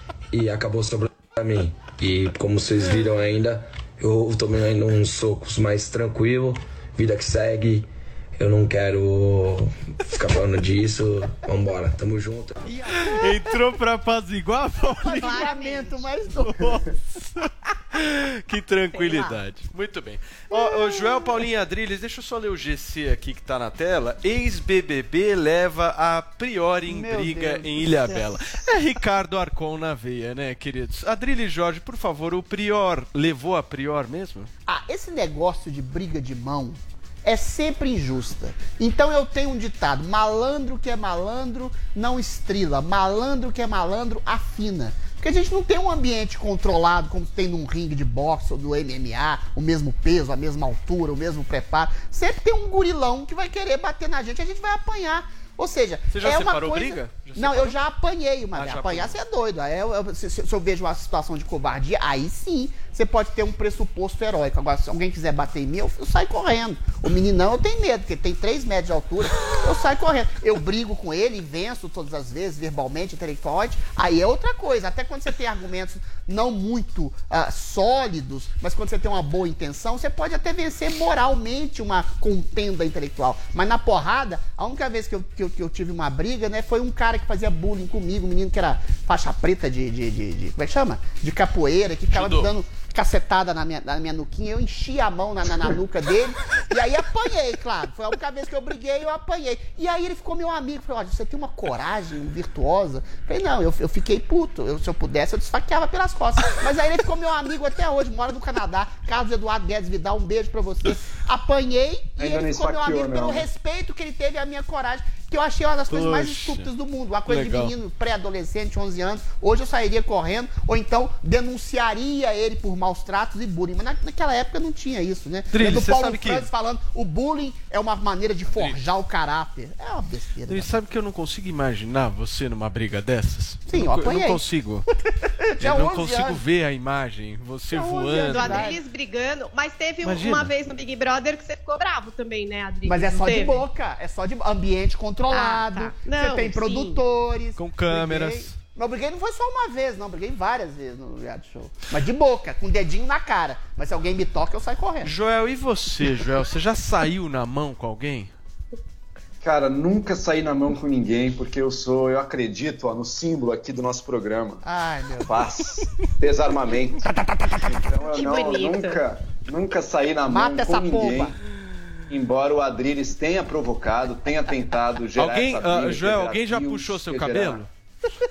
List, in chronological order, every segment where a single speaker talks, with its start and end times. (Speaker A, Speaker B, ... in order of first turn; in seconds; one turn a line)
Speaker A: 0.3-12.6
Speaker B: 12.7-34.5
Speaker C: 15.0-16.8
Speaker D: 15.2-15.8
Speaker D: 18.9-19.4
Speaker C: 26.9-28.4
Speaker C: 34.7-130.7
Speaker B: 56.1-57.8
Speaker B: 58.5-59.2
Speaker B: 92.1-92.5
Speaker E: 112.2-113.5
Speaker B: 115.9-116.7
Speaker B: 117.3-117.7
Speaker B: 125.5-126.5
Speaker B: 128.5-128.8
Speaker B: 130.5-134.8
Speaker C: 133.7-134.4
Speaker C: 135.4-136.4
Speaker B: 135.6-138.7
Speaker C: 137.7-138.8
Speaker D: 138.2-143.6
Speaker B: 140.0-140.5
Speaker C: 142.8-155.1
Speaker D: 145.3-147.0
Speaker B: 147.6-148.6
Speaker B: 155.0-158.3
Speaker E: 159.4-164.6
Speaker C: 164.6-165.5
Speaker E: 165.3-167.0
Speaker E: 167.6-171.4
Speaker D: 168.1-169.0
Speaker C: 170.3-171.3
Speaker E: 172.1-177.6
Speaker B: 175.2-177.7